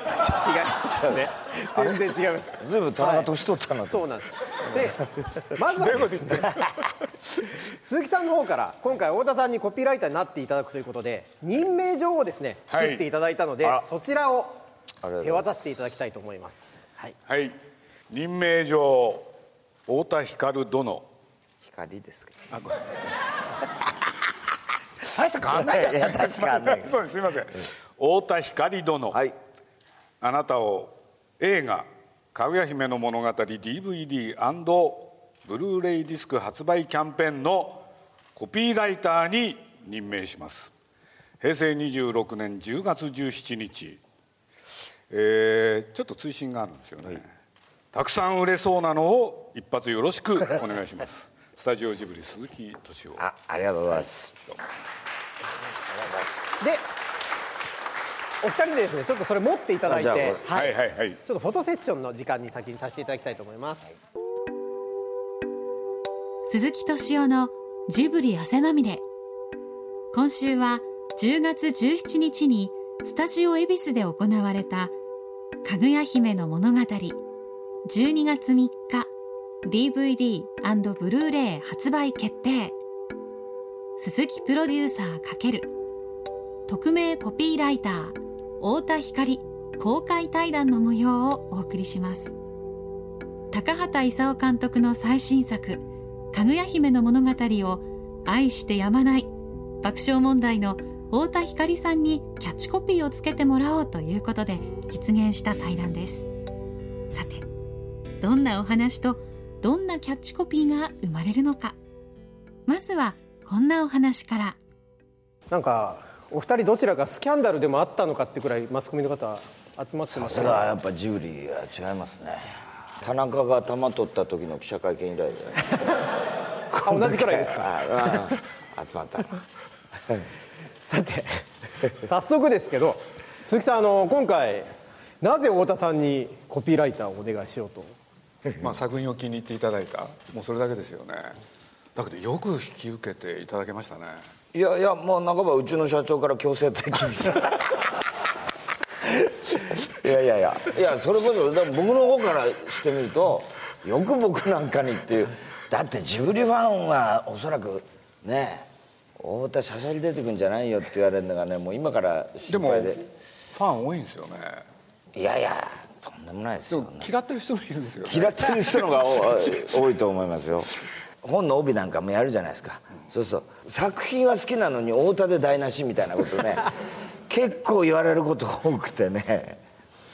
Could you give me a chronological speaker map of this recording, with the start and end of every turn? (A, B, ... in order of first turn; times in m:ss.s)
0:00.2-0:03.3 A
0:00.9-0:01.2 B
0:01.8-0:04.1 B
0:03.9-0:06.6 A
0:05.8-0:06.6 C
0:07.6-0:14.6 A
0:12.7-0:13.0 C
0:15.0-0:15.5 B
0:15.2-0:16.8 A
0:17.3-0:17.6 C
0:18.1-0:19.3 C
0:19.9-0:21.1 C
0:21.6-0:22.5 B
0:22.5-0:23.0 C
0:25.0-0:29.2 C
0:25.5-0:27.0 B
0:29.1-0:29.4 B
0:30.2-0:40.7 C
0:41.4-0:44.0 C
0:45.1-0:47.3 C
0:47.9-0:53.2 C
0:53.2-0:54.4 B
0:56.0-0:56.3 B
0:58.4-1:03.9 A
0:59.9-1:00.5 B
1:00.5-1:01.2 C
1:06.5-1:09.0 D
1:10.1-1:14.9 D
1:15.6-1:17.2 D
1:17.9-1:19.1 D
1:19.6-1:22.8 D
1:24.0-1:25.7 D
1:26.7-1:32.3 D
1:33.5-1:39.3 D
1:39.8-1:46.3 D
1:47.1-1:47.5 D
1:48.2-1:51.8 D
1:52.7-1:54.6 D
1:55.5-2:00.8 A
2:00.1-2:06.0 B
2:06.7-2:08.3 A
2:06.7-2:09.4 B
2:10.8-2:14.7 A
2:15.2-2:18.0 A
2:18.6-2:21.4 C
2:22.0-2:24.3 C
2:24.5-2:27.9 B
2:29.0-2:43.0 B
2:42.5-2:44.7 C
2:45.1-2:47.1 B
2:46.7-2:49.8 C
2:48.0-2:59.6 B